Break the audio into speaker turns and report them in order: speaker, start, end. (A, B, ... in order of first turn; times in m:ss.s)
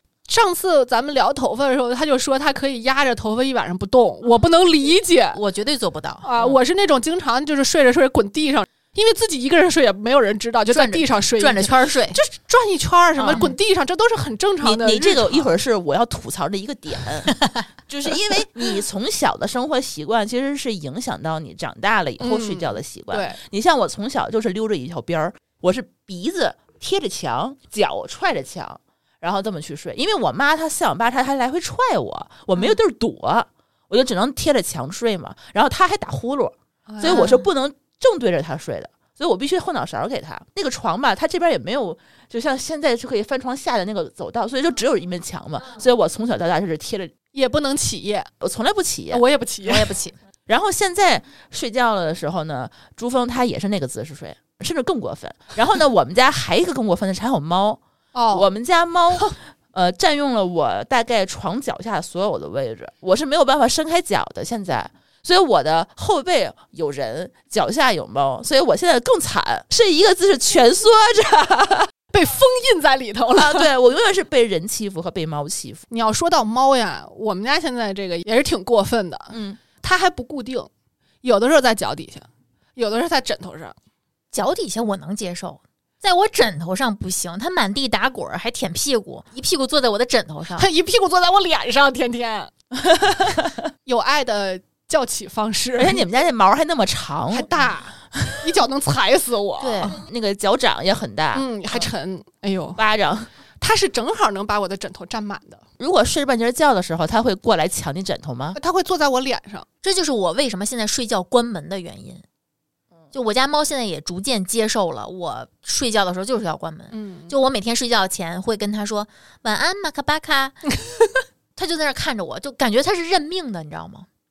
0:00.3-0:05.4 A
0:05.3-0:06.5 B
0:06.2-0:15.5 A
0:10.7-0:12.2 B
0:13.2-0:13.4 C
0:13.2-0:13.6 B
0:14.6-0:47.1 C
0:17.3-0:17.6 B
0:22.2-0:23.4 A
0:36.9-0:37.4 A
0:37.0-0:37.4 B
0:47.3-0:48.3 A
0:48.4-0:49.2 C
0:49.1-0:49.9 A
0:49.6-0:50.1 B
0:50.5-0:57.8 C
0:58.1-0:58.5 A
0:58.3-1:11.9 C
1:12.1-1:13.7 A
1:13.3-1:15.8 C
1:15.9-1:20.7 A
1:19.3-1:19.6 C
1:21.2-1:23.8 A
1:24.3-1:30.7 B
1:30.6-1:32.5 A
1:32.8-1:33.6 C
1:33.8-1:36.0 A
1:35.8-1:37.5 C
1:37.3-1:40.0 A
1:39.6-1:39.9 B
1:39.9-1:41.9 C
1:41.3-1:42.8 A
1:42.8-1:43.3 C
1:43.6-1:45.6 A
1:45.8-1:48.6 C
1:48.5-1:49.7 A
1:49.8-1:52.2 B
1:53.1-2:00.6 B
1:56.9-1:57.3 A
2:01.6-2:04.1 B